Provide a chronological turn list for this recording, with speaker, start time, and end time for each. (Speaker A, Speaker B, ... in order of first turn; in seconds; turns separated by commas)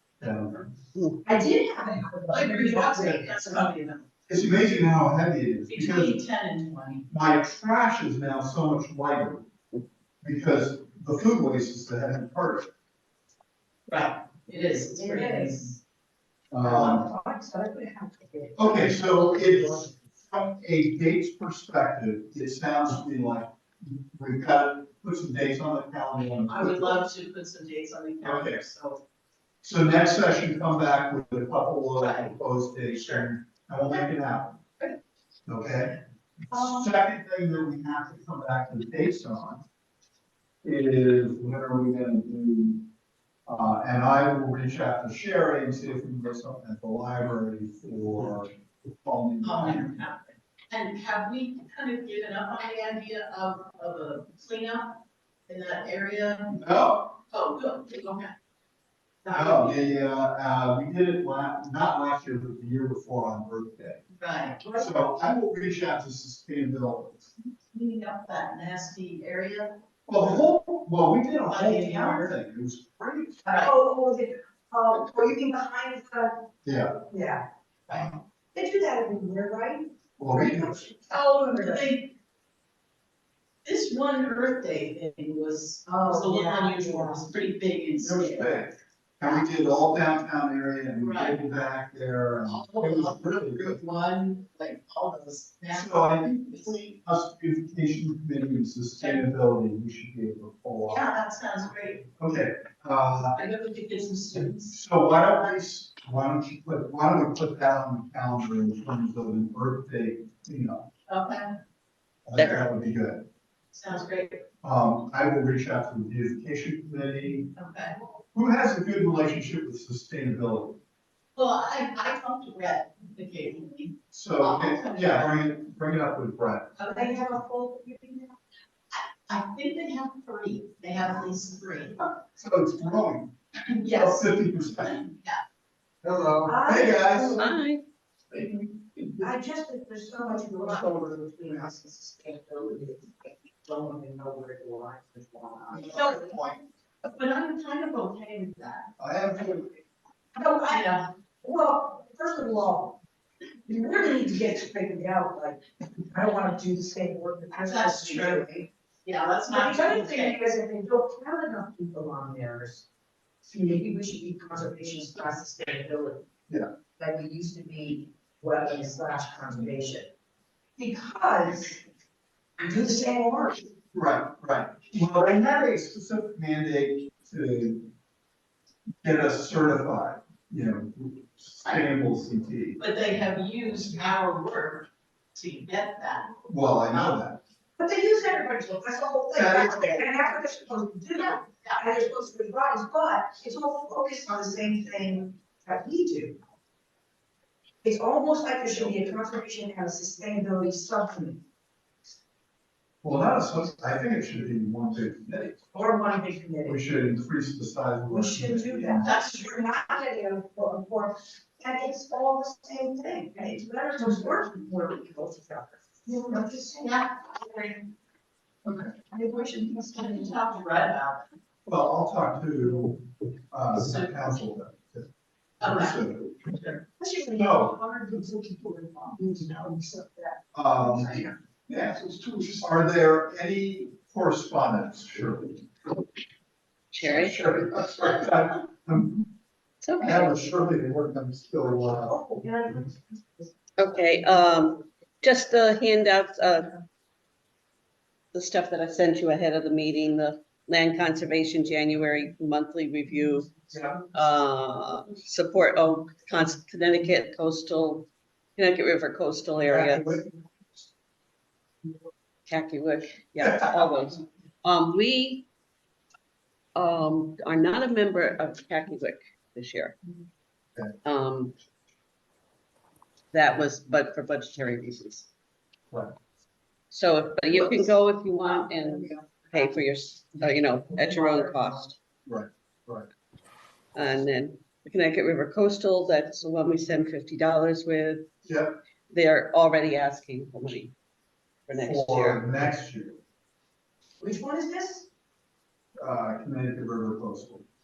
Speaker A: 0.2-0.8, Speaker B: 1.2-3.7, Speaker C: 2.3-4.1, Speaker A: 4.3-6.2, Speaker C: 5.7-7.1, Speaker A: 7.1-9.4, Speaker A: 10.2-12.7, Speaker C: 13.9-15.8, Speaker B: 15.0-15.8, Speaker A: 16.5-17.1, Speaker B: 16.6-20.0, Speaker A: 18.6-27.0, Speaker C: 26.5-29.0, Speaker A: 28.2-28.6, Speaker A: 29.6-34.6, Speaker C: 32.0-33.3, Speaker A: 35.5-36.0, Speaker A: 36.5-39.6, Speaker A: 40.6-42.9, Speaker A: 43.5-50.0, Speaker C: 49.4-56.6, Speaker A: 56.5-57.1, Speaker C: 57.3-58.3, Speaker C: 59.2-59.8, Speaker A: 59.3-64.0, Speaker C: 64.2-64.6, Speaker B: 64.6-65.0, Speaker A: 64.7-67.3, Speaker C: 67.7-70.4, Speaker A: 70.1-73.4, Speaker C: 71.5-72.3, Speaker C: 73.5-73.7, Speaker B: 73.5-76.4, Speaker A: 76.7-76.9, Speaker B: 77.1-77.4, Speaker B: 78.5-81.9, Speaker A: 80.2-81.0, Speaker C: 81.5-82.1, Speaker C: 83.6-88.7, Speaker B: 85.9-87.3, Speaker A: 88.0-93.8, Speaker C: 89.2-89.5, Speaker C: 91.0-91.4, Speaker C: 92.5-96.7, Speaker A: 95.7-101.1, Speaker C: 99.0-99.3, Speaker C: 100.9-102.1, Speaker A: 102.2-103.4, Speaker C: 103.3-104.8, Speaker A: 104.3-110.9, Speaker C: 111.1-111.6, Speaker A: 112.3-113.2, Speaker C: 113.7-114.4, Speaker A: 114.6-117.5, Speaker C: 117.6-118.0, Speaker A: 118.3-120.8, Speaker C: 121.3-125.3, Speaker A: 124.1-126.8, Speaker C: 126.8-127.3, Speaker B: 126.8-128.4, Speaker C: 128.9-132.0, Speaker A: 132.4-135.0, Speaker C: 133.8-135.4, Speaker A: 136.0-137.5, Speaker B: 136.4-137.4, Speaker D: 137.1-137.8, Speaker A: 138.3-139.3, Speaker B: 139.2-146.4, Speaker A: 145.7-146.7, Speaker C: 147.0-148.9, Speaker A: 149.0-149.8, Speaker B: 150.3-150.9, Speaker C: 150.7-151.1, Speaker B: 151.4-153.0, Speaker B: 153.7-158.7, Speaker C: 157.6-158.5, Speaker C: 159.0-160.4, Speaker B: 159.5-162.9, Speaker B: 163.5-166.3, Speaker B: 167.0-170.1, Speaker B: 170.8-171.8, Speaker B: 172.6-173.7, Speaker A: 173.9-177.9, Speaker A: 179.0-182.8, Speaker C: 182.8-186.3, Speaker A: 186.5-187.4, Speaker C: 186.9-187.2, Speaker B: 187.8-196.4, Speaker A: 189.3-190.0, Speaker C: 191.2-191.8, Speaker B: 197.8-201.4, Speaker A: 203.0-205.7, Speaker B: 205.7-206.8, Speaker A: 206.7-209.2, Speaker B: 208.1-217.8, Speaker C: 209.0-209.6, Speaker C: 216.2-217.3, Speaker A: 218.7-218.9, Speaker B: 219.1-220.4, Speaker C: 219.9-221.3, Speaker A: 221.7-225.1, Speaker C: 223.7-224.3, Speaker C: 225.6-226.8, Speaker A: 225.6-226.4, Speaker B: 227.0-231.3, Speaker A: 227.3-227.7, Speaker A: 230.5-235.7, Speaker D: 236.9-237.4, Speaker A: 237.0-239.2, Speaker D: 239.8-240.3, Speaker A: 240.0-242.2, Speaker B: 242.0-243.5, Speaker D: 243.8-246.7, Speaker D: 248.3-260.2, Speaker A: 253.7-254.0, Speaker A: 259.7-260.2, Speaker D: 262.5-265.5, Speaker A: 263.4-263.7, Speaker D: 266.8-270.0, Speaker D: 271.1-271.6, Speaker D: 273.3-275.2, Speaker D: 276.9-282.0, Speaker B: 279.1-279.6, Speaker A: 282.3-283.1, Speaker D: 283.9-288.3, Speaker A: 288.5-288.8, Speaker D: 289.1-290.9, Speaker D: 291.7-292.4, Speaker A: 291.8-293.2, Speaker B: 294.2-295.1, Speaker A: 296.0-297.7